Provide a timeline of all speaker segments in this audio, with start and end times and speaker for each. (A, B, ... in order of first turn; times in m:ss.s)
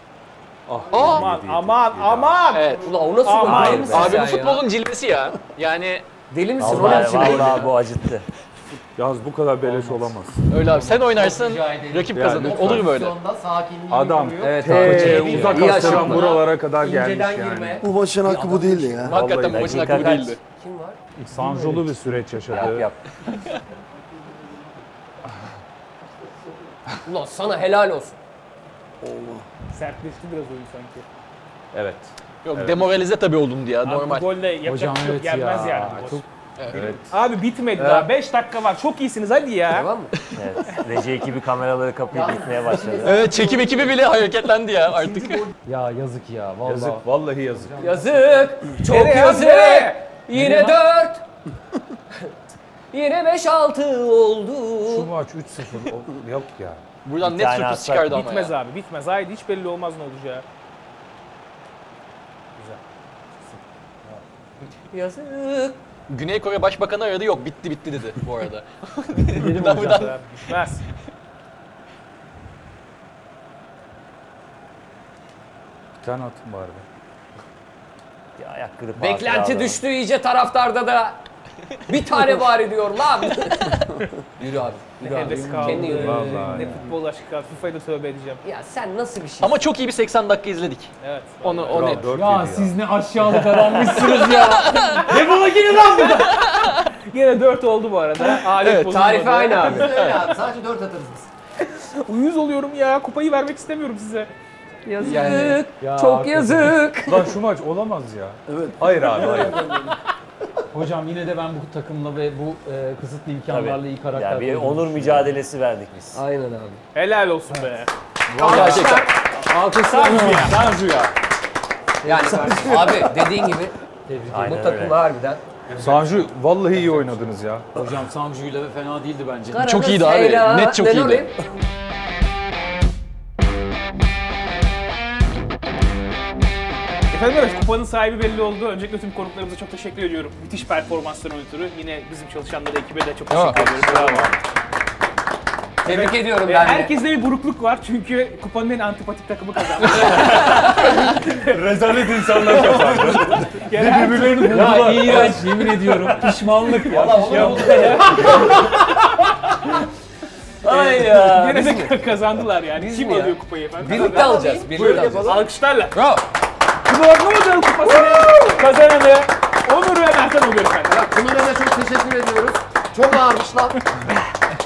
0:00.7-0:02.5 A
0:00.9-0:01.3 B
0:00.9-0:04.2 C
0:02.5-0:02.9 B
0:02.8-0:04.6 D
0:03.4-0:04.2 A
0:03.8-0:06.0 B
0:06.3-0:07.7 D
0:06.6-0:07.7 A
0:06.6-0:08.2 E
0:09.0-0:10.5 A
0:09.6-0:10.2 F
0:10.5-0:13.2 B
0:10.7-0:17.8 G
0:12.1-0:12.9 A
0:13.9-0:17.8 A
0:14.4-0:16.4 D
0:17.8-0:19.2 H
0:18.4-0:18.8 G
0:18.8-0:20.2 A
0:19.1-0:20.4 B
0:19.4-0:20.3 E
0:20.0-0:21.0 D
0:21.2-0:22.9 A
0:22.5-0:23.0 E
0:27.0-0:28.1 D
0:29.0-0:29.4 H
0:29.7-0:31.0 C
0:31.7-0:33.0 A
0:32.4-0:34.3 B
0:33.8-0:36.2 C
0:34.6-0:36.2 F
0:36.6-0:37.0 B
0:36.7-0:37.2 A
0:37.1-0:39.9 C
0:39.7-0:40.2 D
0:40.3-0:43.3 E
0:42.1-0:43.8 G
0:43.0-0:45.5 B
0:44.9-0:45.5 G
0:45.6-0:47.0 F
0:46.6-0:47.8 A
0:47.7-0:48.5 G
0:47.8-0:51.2 D
0:48.8-0:50.0 C
0:50.4-0:50.7 A
0:52.9-0:55.1 D
0:54.8-0:56.8 A
0:57.0-0:58.5 B
0:57.2-0:58.2 E
0:58.1-1:00.4 C
1:04.9-1:05.8 D
1:06.1-1:10.1 B
1:09.3-1:10.8 C
1:16.0-1:16.8 A
1:18.4-1:19.8 E
1:19.0-1:21.2 D
1:21.9-1:26.4 D
1:25.0-1:28.4 C
1:25.2-1:25.8 G
1:25.7-1:26.8 F
1:25.8-1:26.9 A
1:28.4-1:29.7 D
1:29.4-1:32.0 B
1:31.0-1:32.2 C
1:31.7-1:32.8 A
1:32.1-1:36.5 F
1:33.4-1:35.1 B
1:34.8-1:35.1 C
1:36.1-1:36.9 B
1:37.1-1:39.9 C
1:38.6-1:38.9 B
1:38.8-1:39.9 D
1:39.6-1:41.3 G
1:39.8-1:40.3 B
1:42.0-1:44.3 C
1:44.8-1:47.3 D
1:45.1-1:46.9 F
1:47.0-1:49.8 A
1:48.5-1:48.8 H
1:49.2-1:49.7 G
1:49.2-1:49.8 D
1:50.7-1:55.3 F
1:53.5-1:56.2 E
1:56.1-1:56.8 D
1:56.9-1:59.1 C
1:58.3-1:59.0 A
1:58.4-1:59.1 B
1:58.4-1:58.8 F
1:59.4-2:00.6 F
1:59.8-2:00.6 C
1:59.9-2:01.1 A
2:02.0-2:03.7 D
2:02.1-2:03.2 H
2:02.2-2:02.8 G
2:04.0-2:04.7 F
2:04.3-2:05.0 E
2:04.4-2:05.4 D
2:05.7-2:07.7 A
2:07.7-2:09.7 F
2:09.4-2:11.4 D
2:09.6-2:11.3 B
2:17.1-2:24.4 C
2:23.3-2:24.4 A
2:25.8-2:26.9 D
2:26.3-2:31.6 C
2:30.0-2:36.3 A
2:32.5-2:35.3 C
2:34.5-2:38.2 F
2:36.9-2:38.8 C
2:36.9-2:38.4 D
2:37.0-2:38.5 G
2:40.6-2:41.9 E
2:40.7-2:41.6 D
2:40.7-2:46.0 C
2:42.7-2:45.4 D
2:43.8-2:45.4 G
2:45.9-2:46.2 B
2:46.9-2:51.0 C
2:47.8-2:48.6 D
2:50.9-2:53.8 G